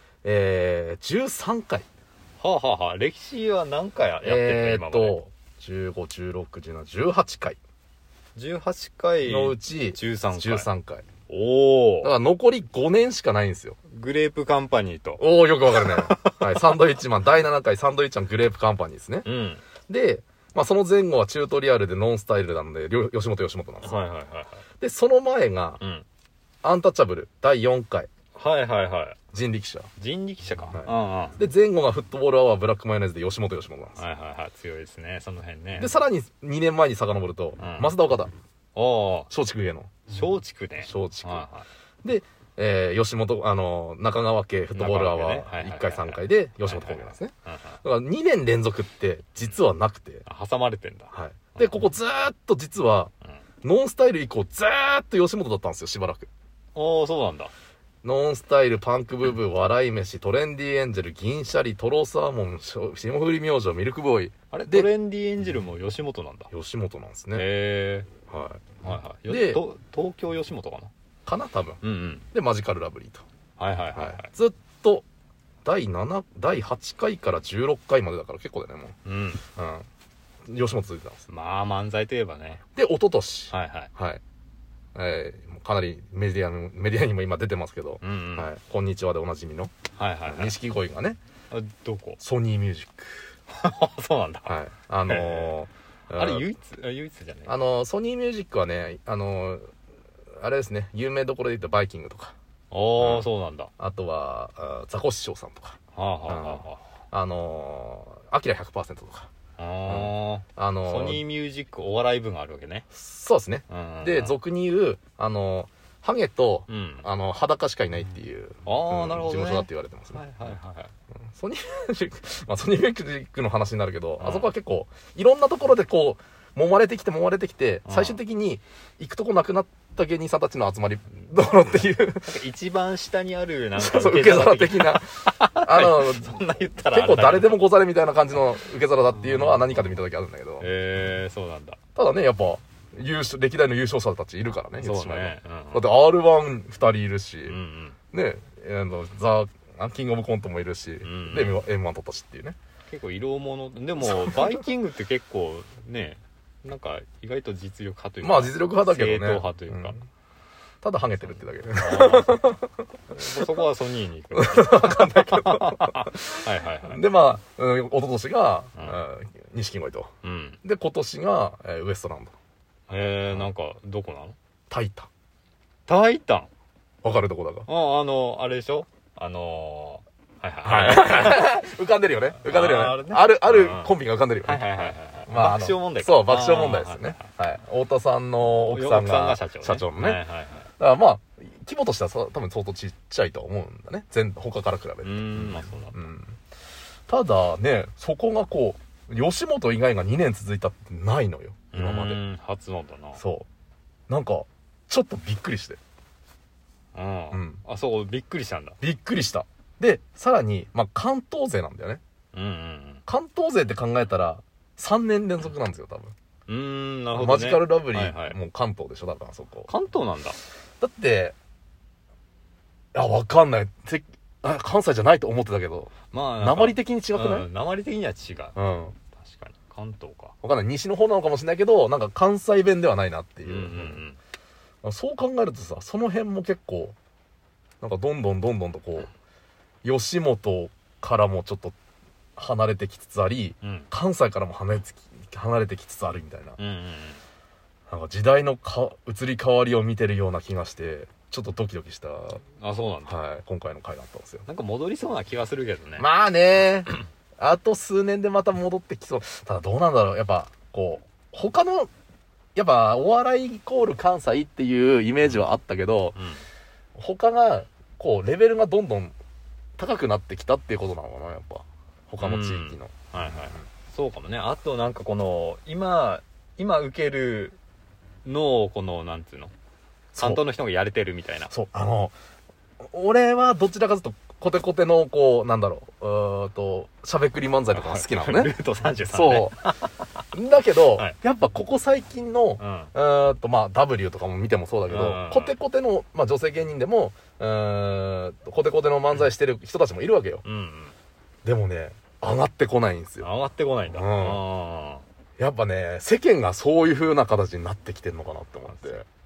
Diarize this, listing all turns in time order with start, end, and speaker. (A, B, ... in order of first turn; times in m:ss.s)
0:00.2-0:01.9 A
0:02.4-0:05.2 B
0:04.2-0:07.6 A
0:08.4-0:10.7 B
0:09.2-0:11.0 A
0:11.3-0:12.1 B
0:12.0-0:13.8 A
0:13.9-0:15.2 B
0:15.2-0:19.3 A
0:15.7-0:16.7 B
0:19.2-0:19.6 B
0:19.9-0:24.0 A
0:23.8-0:24.6 B
0:24.8-0:25.8 A
0:25.8-0:26.0 B
0:26.6-0:28.1 A
0:28.4-0:29.2 B
0:29.3-0:29.9 A
0:30.0-0:31.4 B
0:30.7-0:34.0 A
0:34.0-0:35.9 B
0:35.8-0:38.3 A
0:37.6-0:37.9 B
0:38.7-0:39.3 B
0:39.3-0:40.1 A
0:40.1-0:41.7 B
0:40.8-0:41.4 A
0:42.0-0:47.3 A
0:44.7-0:47.8 B
0:47.8-0:50.2 A
0:50.2-0:51.8 B
0:51.1-0:53.1 A
0:53.6-0:56.3 A
0:56.7-0:57.5 B
0:58.0-1:04.9 A
1:04.5-1:06.5 B
1:06.5-1:07.4 A
1:07.3-1:08.1 B
1:08.3-1:09.6 A
1:08.8-1:10.9 B
1:11.2-1:11.8 A
1:11.8-1:12.2 B
1:12.3-1:13.2 A
1:13.6-1:14.3 B
1:13.9-1:15.0 A
1:15.6-1:18.9 A
1:19.0-1:19.4 B
1:19.6-1:19.9 A
1:20.4-1:21.3 A
1:21.3-1:22.6 B
1:22.7-1:24.2 A
1:23.5-1:23.9 B
1:24.9-1:29.7 A
1:28.0-1:28.5 B
1:30.0-1:30.5 B
1:30.2-1:31.2 A
1:31.5-1:32.2 B
1:32.2-1:33.3 A
1:33.5-1:35.6 B
1:34.4-1:36.5 A
1:36.1-1:37.5 B
1:37.5-1:39.7 A
1:40.4-1:42.3 A
1:42.7-1:43.7 B
1:43.0-1:43.3 A
1:43.8-1:49.3 A
1:45.9-1:46.8 B
1:49.6-1:52.9 B
1:49.8-1:51.2 A
1:52.9-2:00.5 A
1:53.7-1:54.4 B
1:56.7-1:57.0 B
1:58.6-2:00.9 B
2:01.3-2:12.3 A
2:04.2-2:04.5 B
2:07.8-2:08.2 B
2:11.7-2:17.6 B
2:13.8-2:20.7 A
2:19.2-2:19.7 B
2:20.6-2:21.8 B
2:22.0-2:27.6 A
2:24.8-2:25.8 B
2:27.4-2:28.0 B
2:28.1-2:32.6 A
2:31.0-2:31.6 B
2:32.9-2:40.0 B
2:34.0-2:34.6 A
2:38.2-2:40.0 A
2:40.8-2:42.7 A
2:41.8-2:42.5 B
2:43.1-2:47.0 B
2:44.3-2:50.1 A
2:50.2-2:50.6 B
2:50.6-2:52.3 A
2:52.9-2:54.3 B
2:54.7-2:55.1 A
2:55.9-2:56.5 B
2:57.0-2:57.7 A
2:57.7-3:01.5 B
3:00.6-3:10.2 A
3:02.4-3:03.9 B
3:04.4-3:07.3 B
3:08.4-3:10.7 B
3:10.8-3:16.4 A
3:15.0-3:16.0 B
3:17.1-3:22.2 A
3:21.7-3:23.2 B
3:23.2-3:23.4 A
3:24.1-3:25.8 A
3:26.9-3:28.8 B
3:27.3-3:27.6 A
3:28.8-3:32.0 A
3:32.3-3:33.0 B
3:33.1-3:36.1 A
3:36.5-3:38.4 B
3:37.1-3:39.7 A
3:39.7-3:40.4 B
3:40.8-3:41.4 A
3:42.9-3:47.5 A
3:46.1-3:48.6 B
3:48.5-3:49.0 A
3:49.1-3:50.3 B
3:50.4-3:54.0 A
3:53.4-3:54.2 B
3:54.8-3:57.0 A
3:57.8-3:59.1 A
3:59.8-4:01.8 A
4:02.4-4:06.6 A
4:03.6-4:03.9 B
4:06.6-4:07.2 B
4:07.9-4:12.4 A
4:12.6-4:13.2 B
4:13.0-4:14.4 A
4:14.5-4:16.1 B
4:16.0-4:21.9 A
4:22.5-4:26.2 A
4:26.2-4:26.4 B
4:26.9-4:29.1 A
4:29.8-4:33.7 A
4:32.2-4:37.6 B
4:38.2-4:39.5 B
4:40.1-4:40.4 A
4:40.2-4:41.5 B
4:41.5-4:42.1 A
4:42.8-4:48.5 A
4:47.7-4:50.0 B
4:49.1-4:49.7 A
4:50.3-5:00.4 A
4:52.6-4:52.9 B
4:54.9-4:55.5 B
5:00.4-5:00.9 B
5:01.4-5:03.3 A
5:03.2-5:05.0 B
5:03.9-5:04.4 A
5:05.4-5:09.0 A